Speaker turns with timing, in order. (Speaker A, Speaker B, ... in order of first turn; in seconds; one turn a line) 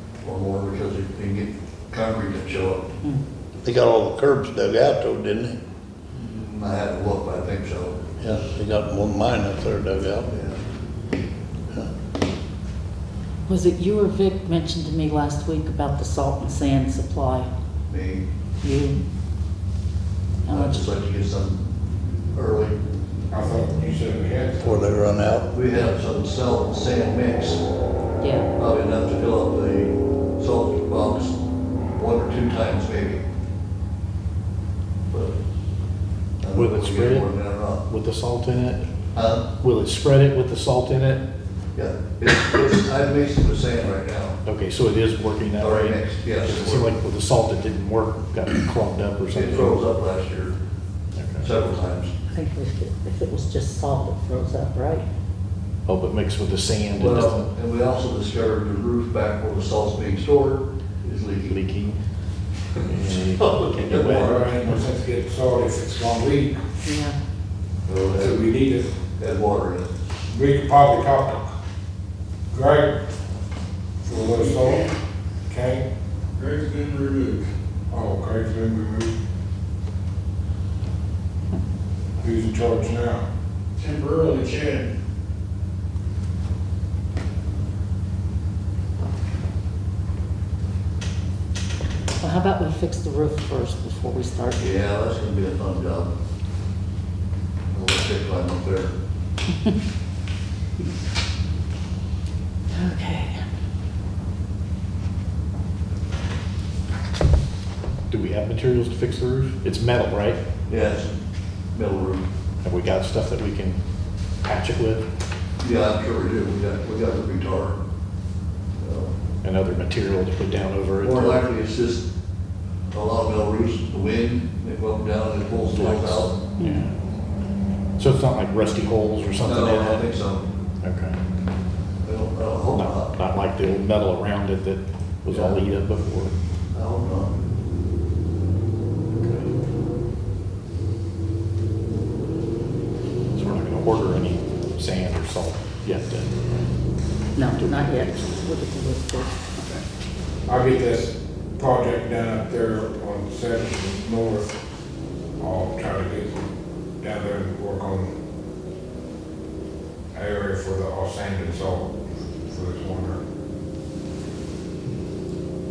Speaker A: 0.2-2.8
Speaker B: 3.6-5.6
Speaker A: 6.1-8.1
Speaker B: 8.2-10.3
Speaker A: 10.3-10.6
Speaker C: 13.5-17.5
Speaker A: 17.9-18.2
Speaker C: 18.6-19.0
Speaker C: 20.4-20.9
Speaker A: 20.5-21.6
Speaker A: 22.3-22.7
Speaker D: 23.3-24.8
Speaker B: 24.6-25.4
Speaker A: 25.5-27.6
Speaker C: 28.2-28.4
Speaker A: 28.6-31.4
Speaker A: 31.9-33.2
Speaker A: 35.1-35.4
Speaker A: 36.4-37.8
Speaker E: 36.5-37.3
Speaker E: 37.8-38.9
Speaker A: 39.1-39.5
Speaker E: 39.6-41.2
Speaker A: 41.8-44.4
Speaker E: 44.4-49.8
Speaker A: 45.6-46.9
Speaker A: 49.3-50.5
Speaker E: 51.1-51.5
Speaker A: 51.4-52.1
Speaker C: 52.3-55.0
Speaker E: 55.9-57.5
Speaker A: 56.9-61.6
Speaker E: 61.4-62.0
Speaker E: 62.9-64.4
Speaker A: 63.4-64.4
Speaker D: 64.1-66.6
Speaker C: 66.8-67.1
Speaker A: 67.9-68.5
Speaker D: 68.1-68.9
Speaker A: 69.2-69.9
Speaker D: 70.3-71.6
Speaker D: 72.5-73.0
Speaker D: 74.0-74.8
Speaker F: 74.1-74.9
Speaker D: 75.5-75.8
Speaker F: 76.4-77.5
Speaker D: 77.9-79.2
Speaker D: 82.2-83.2
Speaker F: 83.8-84.9
Speaker C: 92.2-94.6
Speaker A: 94.6-96.1
Speaker A: 97.7-98.9
Speaker C: 102.7-103.4
Speaker E: 108.1-110.4
Speaker A: 110.7-111.2
Speaker A: 111.7-112.2
Speaker E: 112.6-113.8
Speaker E: 114.4-115.0
Speaker A: 115.6-117.8
Speaker A: 118.8-119.1
Speaker E: 119.4-121.4
Speaker A: 121.0-122.0
Speaker A: 122.9-126.4
Speaker E: 125.7-126.9
Speaker C: 126.6-126.9
Speaker E: 128.0-130.1
Speaker A: 129.4-130.4
Speaker E: 130.8-131.2
Speaker A: 132.0-133.1
Speaker E: 132.7-136.3
Speaker A: 135.3-135.6
Speaker A: 136.7-137.3
Speaker E: 139.1-139.5
Speaker E: 143.3-146.7
Speaker C: 147.3-149.8
Speaker E: 147.5-148.4
Speaker D: 150.5-154.6
Speaker D: 155.4-156.4
Speaker D: 157.0-158.1
Speaker D: 160.1-161.9
Speaker D: 162.5-163.2